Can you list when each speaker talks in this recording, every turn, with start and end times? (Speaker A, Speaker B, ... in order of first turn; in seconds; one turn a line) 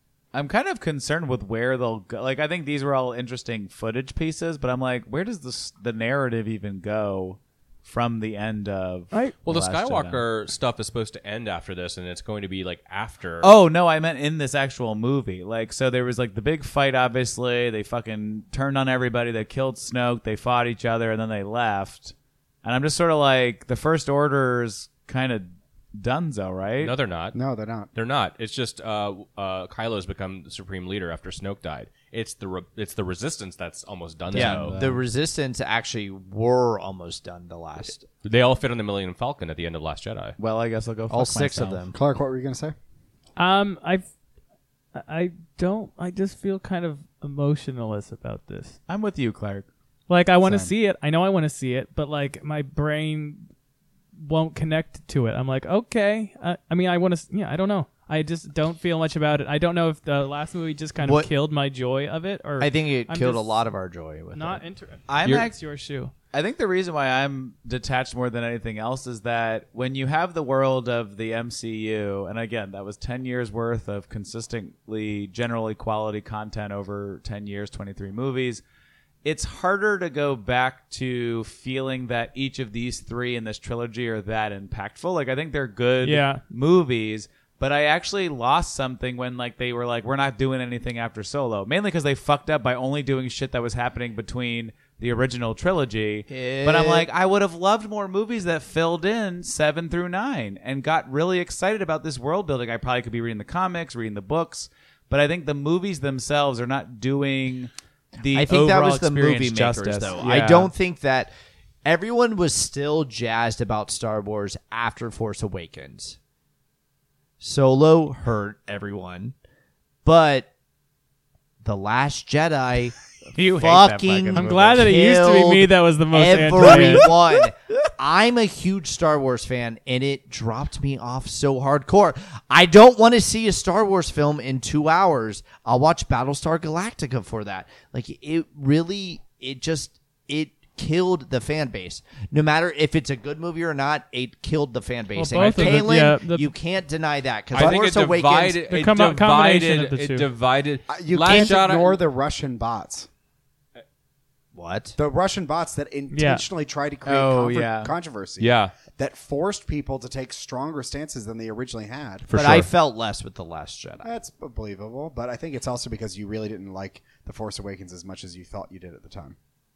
Speaker A: 0.3-10.2
Speaker B: 9.5-13.5
Speaker A: 13.4-26.9
Speaker B: 26.8-27.4
Speaker C: 27.3-27.9
Speaker B: 27.9-34.8
Speaker A: 34.3-35.0
Speaker D: 34.3-38.0
Speaker B: 38.2-40.4
Speaker A: 40.4-41.9
Speaker D: 41.1-42.0
Speaker C: 41.9-42.8
Speaker E: 43.4-44.1
Speaker E: 44.9-48.8
Speaker A: 48.9-49.7
Speaker E: 50.1-53.5
Speaker E: 54.2-63.5
Speaker D: 61.0-61.3
Speaker D: 62.6-64.6
Speaker E: 64.3-66.1
Speaker A: 65.1-65.6
Speaker A: 66.3-78.6
Speaker A: 79.2-110.7
Speaker E: 86.0-86.4
Speaker D: 96.3-97.1
Speaker D: 108.3-111.3
Speaker D: 111.8-116.2
Speaker D: 117.4-119.3
Speaker D: 120.0-120.5
Speaker D: 121.6-148.6
Speaker A: 123.3-124.9
Speaker E: 124.3-127.1
Speaker A: 126.6-127.0
Speaker E: 145.2-146.5
Speaker A: 145.3-145.9
Speaker B: 147.5-152.0
Speaker E: 148.7-150.3
Speaker C: 150.9-153.1
Speaker D: 154.6-155.0
Speaker C: 155.0-162.3
Speaker E: 156.1-156.4
Speaker A: 157.1-157.9
Speaker B: 158.4-158.7
Speaker B: 162.3-162.7
Speaker D: 162.3-164.1
Speaker C: 164.0-169.4